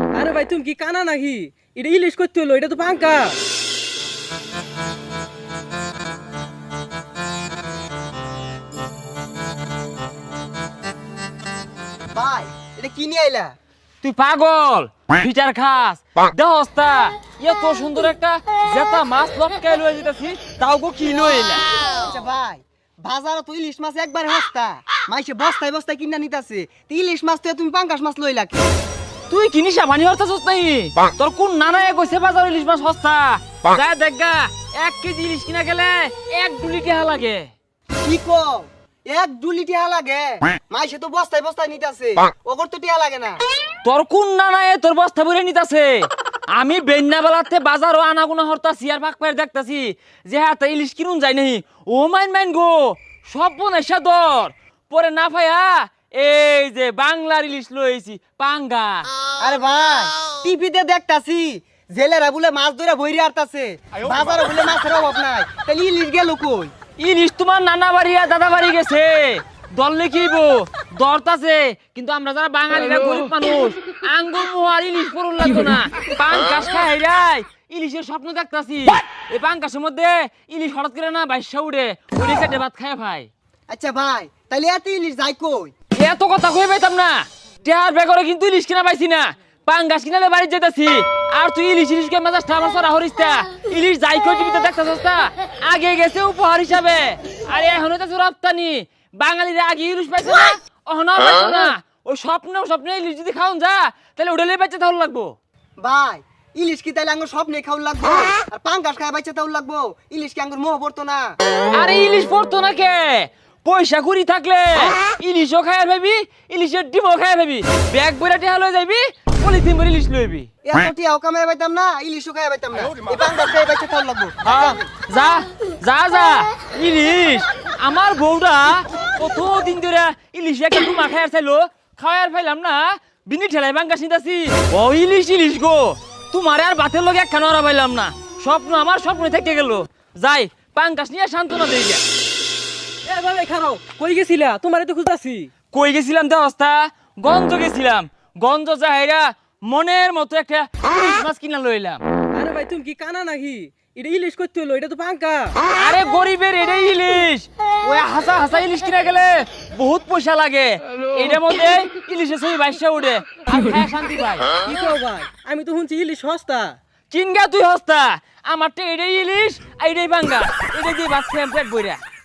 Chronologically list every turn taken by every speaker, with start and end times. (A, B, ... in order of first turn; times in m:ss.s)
0:00.1-0:03.4 A
0:12.1-0:13.6 B
0:14.0-0:21.6 C
0:21.9-0:28.7 B
0:29.3-0:37.5 C
0:38.0-0:43.4 B
0:43.8-0:59.1 C
0:59.4-1:06.7 B
1:07.0-1:23.3 C
1:23.7-1:25.7 B
1:26.0-1:45.4 C
1:45.8-1:51.4 B
1:51.8-2:00.5 C
2:00.6-2:04.9 B
2:04.4-2:22.0 C
2:23.0-2:25.5 A
2:25.7-2:32.0 C
2:32.3-2:35.6 A
2:35.8-2:44.5 C
2:44.6-2:46.8 A
2:47.1-2:52.0 C